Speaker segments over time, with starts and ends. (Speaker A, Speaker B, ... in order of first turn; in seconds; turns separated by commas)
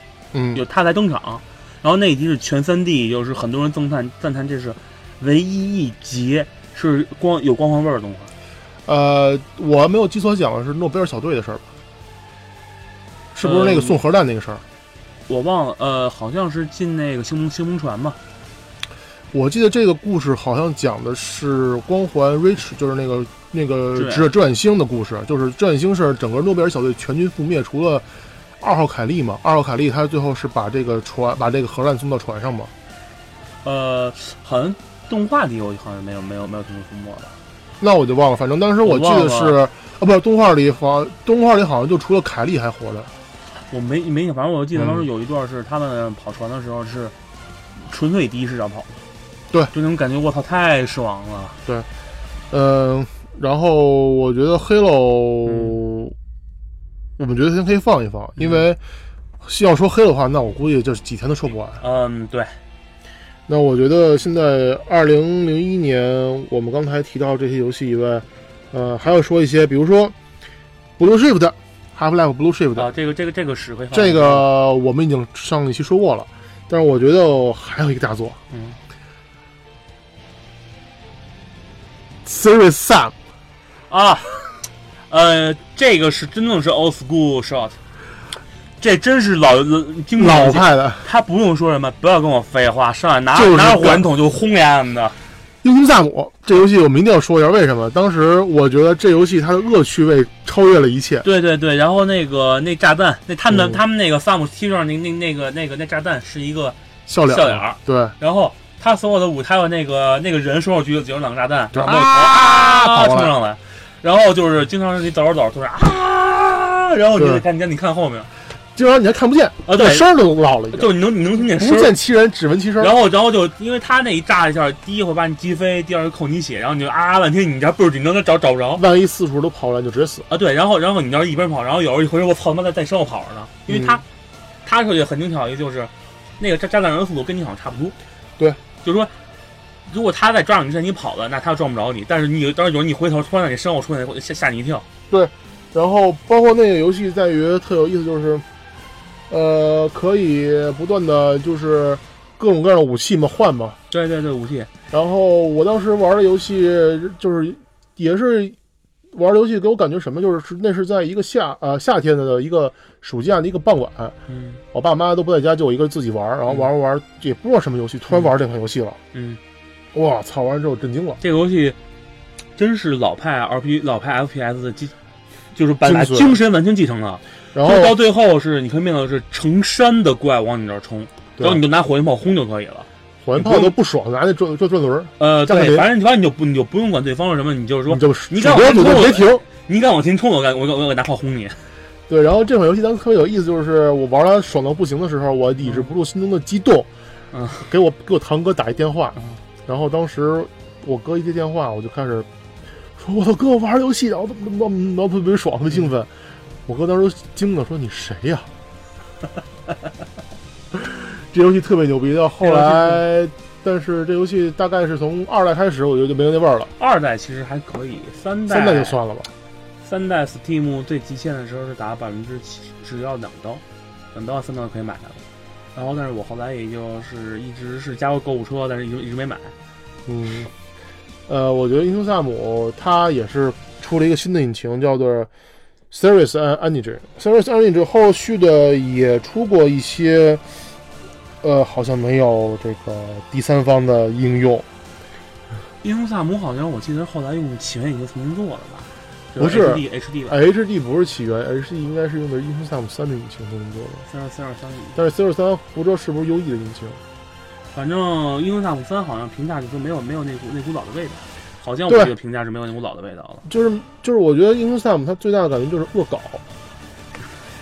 Speaker A: 0.3-0.6, Speaker B: 0.5-8.3, Speaker A: 8.8-11.7, Speaker A: 13.3-14.6, Speaker B: 13.4-14.0, Speaker B: 15.3-18.2, Speaker A: 19.3-28.1, Speaker B: 23.9-24.3, Speaker A: 28.6-32.7, Speaker B: 33.6-37.3, Speaker A: 37.8-43.1, Speaker B: 38.8-39.6, Speaker B: 43.7-47.1, Speaker A: 44.7-45.0, Speaker B: 47.8-48.9, Speaker B: 49.7-51.6, Speaker A: 52.5-56.1, Speaker B: 55.5-55.8, Speaker A: 57.2-58.8, Speaker B: 58.4-58.6, Speaker A: 59.4-61.8, Speaker B: 61.8-62.6, Speaker A: 63.5-70.1, Speaker A: 71.0-72.9, Speaker B: 72.8-74.5, Speaker A: 73.9-78.4, Speaker B: 78.5-78.8, Speaker A: 82.2-83.1, Speaker B: 83.9-87.8, Speaker B: 88.8-95.2, Speaker A: 90.2-91.0, Speaker A: 93.3-94.1, Speaker A: 95.6-101.2, Speaker B: 101.2-118.3, Speaker A: 103.5-103.8, Speaker A: 107.1-108.1, Speaker A: 111.7-113.3, Speaker A: 117.2-117.4, Speaker A: 118.7-122.9, Speaker B: 119.7-120.1, Speaker B: 120.7-121.9, Speaker B: 122.8-128.8, Speaker A: 128.8-130.3, Speaker B: 130.3-134.0, Speaker A: 133.7-134.0, Speaker B: 134.6-137.9, Speaker B: 138.8-139.1, Speaker B: 139.9-144.8, Speaker A: 145.1-148.4, Speaker A: 149.3-153.8, Speaker B: 153.9-154.7, Speaker A: 154.9-158.6, Speaker A: 159.1-164.2, Speaker B: 164.3-164.6, Speaker A: 164.7-169.0, Speaker B: 169.1-169.4, Speaker A: 169.9-171.2, Speaker B: 171.2-171.8, Speaker B: 172.6-174.9, Speaker B: 175.5-183.7, Speaker A: 175.8-176.4, Speaker A: 177.5-177.9, Speaker A: 181.4-181.6, Speaker A: 183.2-185.9, Speaker B: 185.2-191.6, Speaker A: 187.9-189.4, Speaker A: 192.1-196.9, Speaker B: 195.6-195.9, Speaker B: 197.3-197.7, Speaker A: 197.6-202.3, Speaker A: 203.0-206.1, Speaker A: 206.7-208.5, Speaker A: 210.7-216.7, Speaker B: 212.4-213.0, Speaker B: 216.8-219.0, Speaker A: 218.5-219.3, Speaker B: 219.8-225.2, Speaker B: 225.7-229.5, Speaker A: 230.1-230.5, Speaker A: 231.3-235.3, Speaker A: 235.9-240.4, Speaker A: 241.4-244.7, Speaker B: 245.8-250.3, Speaker A: 249.4-254.0, Speaker B: 254.1-255.0, Speaker A: 254.9-257.0, Speaker B: 257.7-263.4, Speaker A: 263.5-266.4